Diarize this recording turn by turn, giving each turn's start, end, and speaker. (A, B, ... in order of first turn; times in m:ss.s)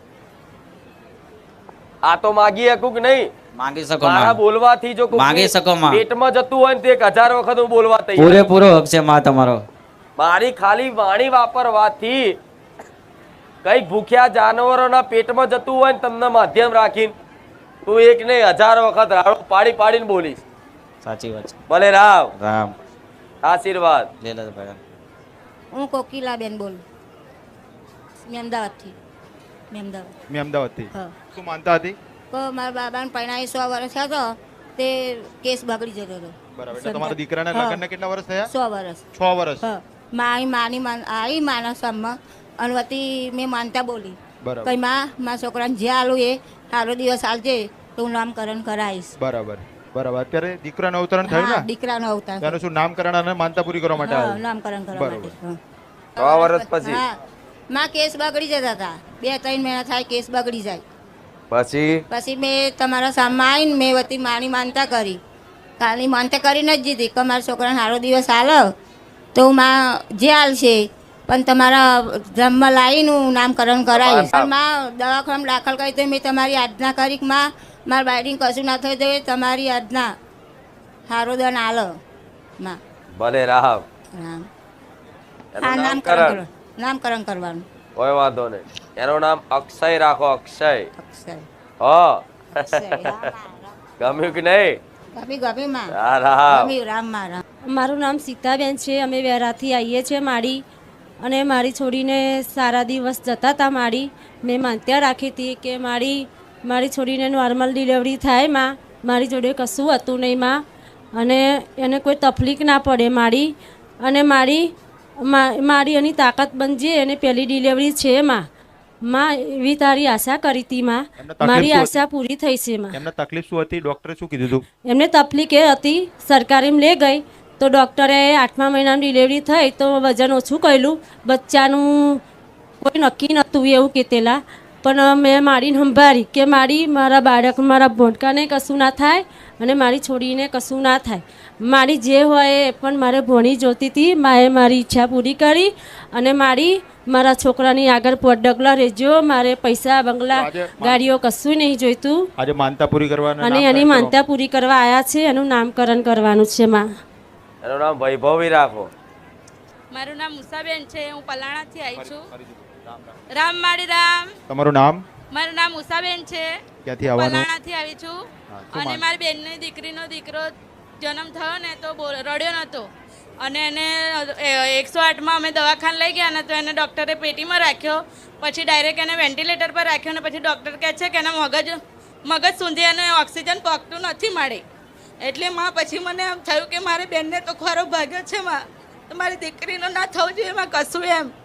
0:02.0-0:03.3 A
0:03.6-0:04.4 B
0:04.0-0:08.4 A
0:05.1-0:06.0 B
0:08.2-0:09.6 B
0:10.2-0:12.4 A
0:13.6-0:17.1 A
0:17.8-0:20.4 A
0:21.0-0:21.6 B
0:21.7-0:22.3 A
0:22.4-0:22.7 B
0:23.4-0:24.1 A
0:24.2-0:24.8 B
0:25.7-0:26.8 C
0:28.2-0:28.9 C
0:29.7-0:30.1 C
0:30.3-0:32.0 D
0:32.3-0:34.2 C
0:34.8-0:37.8 C
0:36.6-0:38.5 D
0:38.5-0:39.0 C
0:39.1-0:39.6 D
0:39.6-0:49.1 C
0:44.4-0:44.7 D
0:49.2-0:51.7 D
0:51.2-0:52.6 C
0:52.4-0:54.4 D
0:54.0-0:55.5 C
0:55.0-0:55.4 D
0:56.2-0:57.1 C
0:56.2-0:57.0 A
0:57.7-1:00.8 C
1:01.5-1:02.0 A
1:02.1-1:05.2 C
1:05.8-1:08.6 C
1:09.3-1:20.1 C
1:13.9-1:14.5 A
1:21.1-1:21.9 C
1:23.2-1:23.8 A
1:24.2-1:24.4 C
1:25.5-1:26.4 A
1:25.6-1:27.6 C
1:28.0-1:30.9 A
1:31.0-1:31.5 C
1:31.8-1:33.3 A
1:32.6-1:34.4 C
1:34.0-1:34.8 A
1:35.2-1:35.9 C
1:36.0-1:36.7 A
1:36.5-1:37.4 C
1:37.7-1:40.6 E
1:41.2-1:50.6 E
1:51.1-1:54.7 E
1:55.2-1:58.4 E
1:59.0-2:03.0 E
2:01.2-2:02.0 D
2:02.9-2:04.6 D
2:04.8-2:12.2 E
2:12.8-2:32.3 E
2:30.3-2:31.0 D
2:32.4-2:34.1 D
2:33.4-2:36.9 E
2:37.6-2:38.9 A
2:39.9-2:42.2 F
2:41.9-2:43.2 D
2:43.4-2:44.2 F
2:44.5-2:45.0 D
2:45.3-2:46.4 F
2:46.8-2:47.5 D
2:47.1-2:48.1 F
2:48.5-2:49.0 D
2:48.7-2:50.5 F
2:51.0-2:52.8 F
2:53.4-2:53.8 F
2:54.5-3:01.7 F
3:02.3-3:04.6 F
3:05.2-3:08.5 F
3:09.1-3:11.3 F